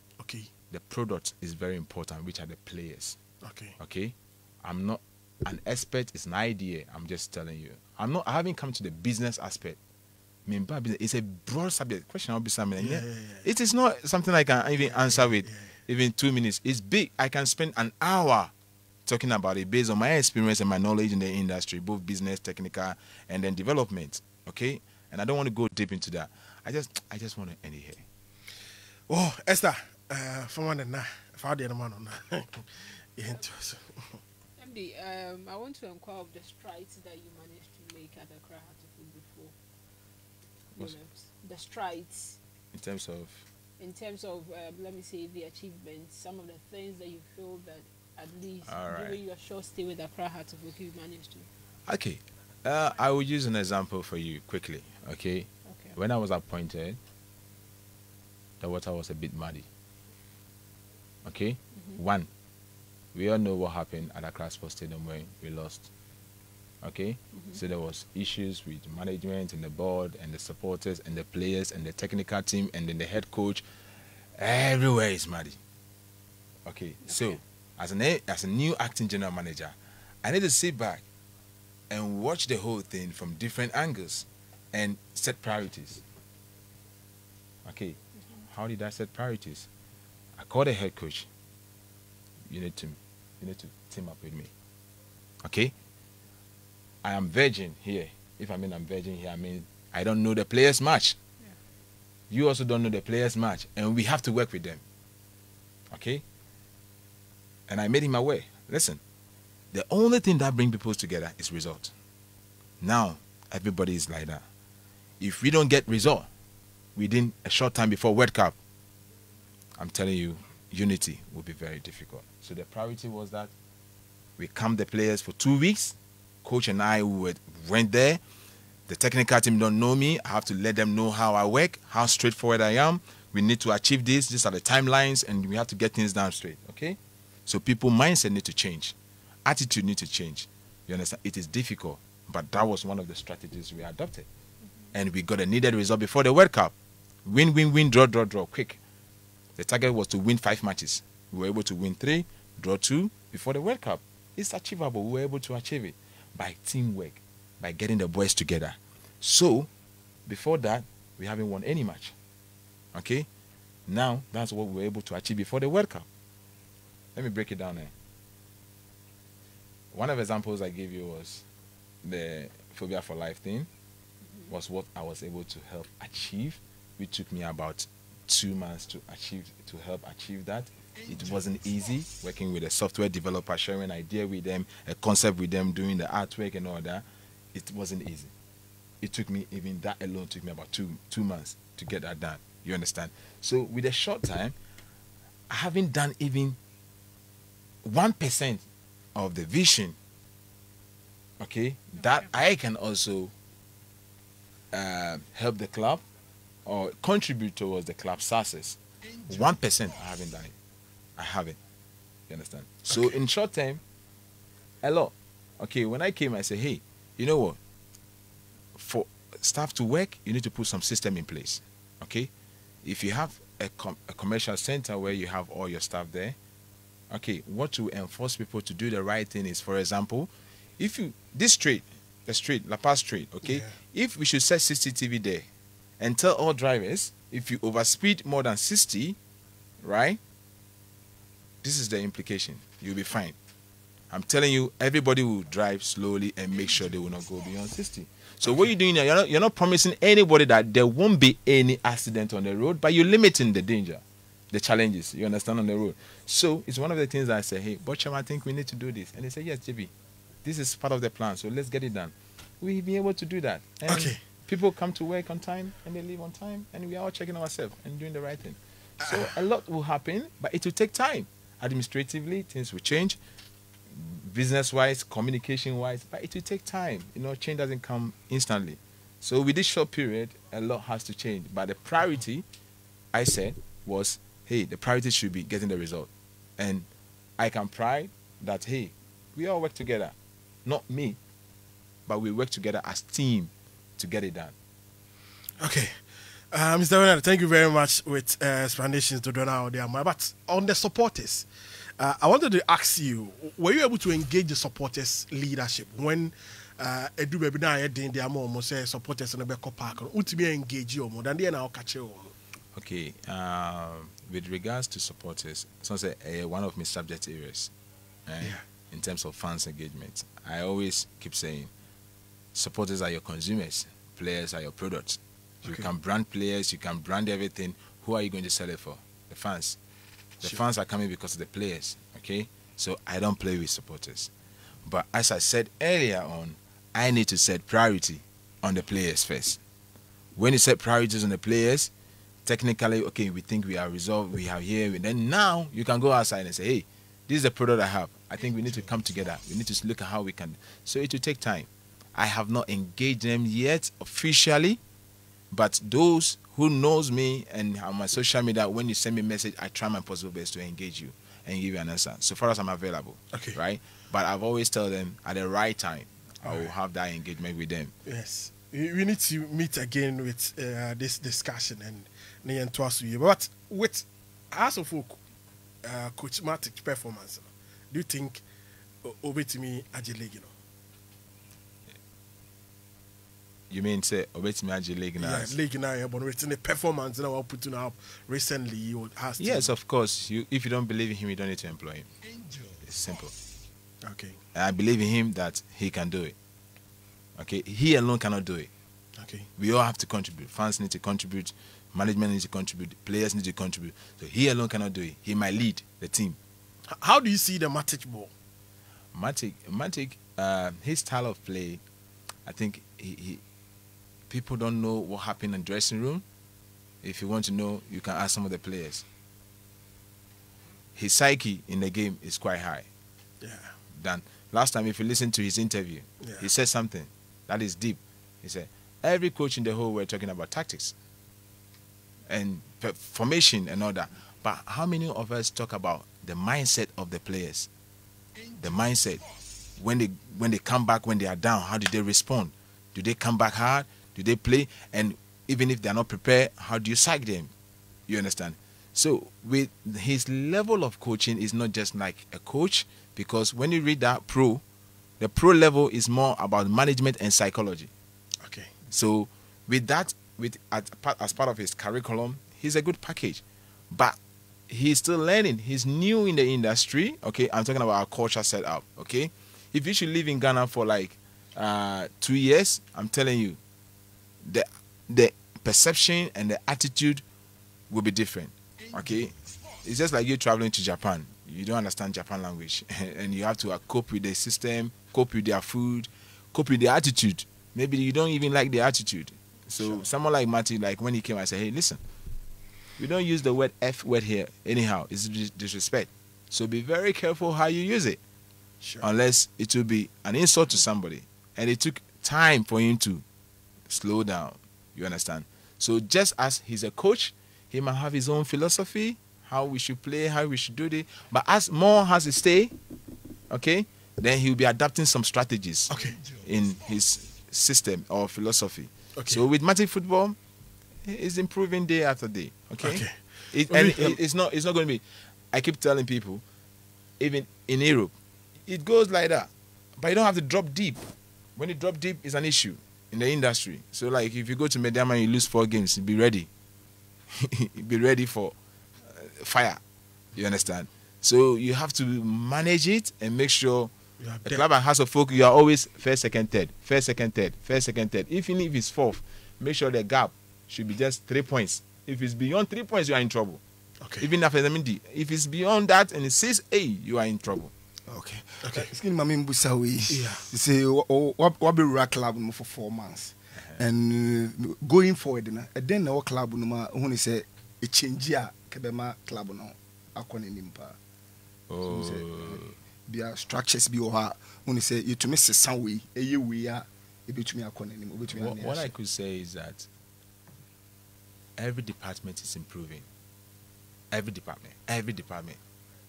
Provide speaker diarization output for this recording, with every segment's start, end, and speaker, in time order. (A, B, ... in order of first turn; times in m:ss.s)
0:00.2-0:00.5 A
0:00.7-0:03.2 B
0:03.4-0:03.8 A
0:03.8-0:09.8 B
0:10.5-0:18.5 B
0:12.8-0:13.5 A
0:14.8-0:15.8 A
0:19.0-0:28.0 B
0:29.1-0:34.2 A
0:34.6-0:39.5 C
0:40.7-0:42.4 C
0:42.7-0:43.4 B
0:43.8-0:51.5 C
0:48.6-0:49.2 B
0:51.9-0:57.0 B
0:55.6-0:56.0 C
0:58.6-0:59.7 B
1:01.2-1:02.3 B
1:01.8-1:02.0 C
1:03.1-1:05.9 B
1:06.8-1:13.6 B
1:07.3-1:07.6 C
1:14.4-1:15.6 B
1:16.6-1:21.0 B
1:17.0-1:17.4 C
1:21.9-1:26.0 B
1:27.6-1:28.0 B
1:28.5-1:29.7 B
1:30.4-1:31.3 B
1:32.5-1:34.5 B
1:35.4-1:35.7 B
1:37.0-1:41.2 B
1:42.3-1:44.8 B
1:45.9-1:46.2 B
1:47.7-1:49.0 B
1:49.7-1:51.9 B
1:52.8-1:54.4 B
1:55.2-1:56.3 B
1:57.0-1:58.6 B
1:59.8-2:03.5 B
2:04.4-2:08.2 B
2:08.9-2:24.3 B
2:24.9-2:26.7 B
2:27.2-2:28.8 B
2:29.6-2:39.7 B
2:40.3-2:42.1 B
2:42.9-2:43.3 B
2:43.9-2:46.1 B
2:47.1-2:47.9 B
2:49.9-2:51.4 B
2:52.0-2:53.7 B
2:54.5-3:08.3 B
3:09.0-3:14.5 B
3:15.5-3:16.6 B
3:17.8-3:20.0 B
3:21.4-3:23.3 B
3:24.7-3:26.0 B
3:26.6-3:30.6 B
3:31.2-3:31.6 B
3:32.3-3:33.8 B
3:34.8-3:37.6 B
3:38.7-3:42.3 B
3:42.8-3:46.4 B
3:47.1-3:55.5 B
3:53.4-3:53.7 A
3:56.0-3:59.2 B
3:59.8-4:00.2 B
4:01.6-4:03.4 B
4:04.1-4:19.9 B
4:08.4-4:08.7 A
4:20.4-4:33.2 B
4:23.9-4:24.2 A
4:33.9-4:42.4 B
4:43.1-4:46.9 B
4:47.4-4:51.2 B
4:52.1-4:54.5 B
4:55.6-4:56.0 A
4:56.5-5:01.5 A
5:02.0-5:12.3 A
5:12.7-5:17.7 B
5:18.3-5:21.7 B
5:22.5-5:29.8 B
5:25.6-5:25.9 A
5:30.4-5:34.3 B
5:34.8-5:39.6 B
5:40.3-5:41.9 B
5:42.4-5:54.8 B
5:55.5-6:07.9 B
6:03.3-6:03.6 A
6:06.4-6:06.7 A
6:08.0-6:15.2 A
6:15.8-6:18.4 A
6:19.0-6:20.5 A
6:23.7-6:25.5 B
6:25.2-6:29.7 A
6:29.4-6:32.1 B
6:32.8-6:33.3 B
6:34.0-6:34.4 A
6:34.5-6:36.3 B
6:37.4-6:38.7 B
6:39.2-6:39.5 A
6:39.6-6:46.4 B
6:46.9-6:48.3 A
6:49.1-6:51.8 B
6:52.4-6:53.4 B
6:54.3-6:56.2 B
6:57.0-6:59.0 B
7:01.0-7:02.9 B
7:03.4-7:03.8 A
7:03.9-7:10.9 B
7:06.2-7:06.5 A
7:12.3-7:17.7 B
7:18.6-7:19.2 B
7:19.8-7:27.5 B
7:28.1-7:34.6 B
7:35.2-7:37.9 B
7:38.4-7:38.7 A
7:38.9-7:44.2 B
7:44.7-7:53.6 B
7:54.4-7:57.2 B
7:57.9-8:12.0 B
8:09.8-8:10.0 A
8:13.0-8:18.2 B
8:18.8-8:19.0 A
8:19.0-8:23.2 B
8:23.9-8:32.7 B
8:33.5-8:40.4 B
8:35.9-8:36.2 A
8:39.1-8:39.4 A
8:41.0-8:46.4 B
8:42.8-8:44.2 A
8:47.2-8:48.1 B
8:48.6-8:56.5 B
8:57.3-8:59.8 B
9:00.4-9:03.9 B
9:04.2-9:04.6 A
9:04.4-9:13.6 B
9:14.0-9:14.3 A
9:14.2-9:17.7 B
9:18.1-9:31.0 D
9:18.6-9:18.9 A
9:20.1-9:20.4 A
9:31.7-9:32.8 B
9:31.8-9:38.9 D
9:38.3-9:39.9 B
9:41.6-9:43.0 B
9:44.1-9:45.6 B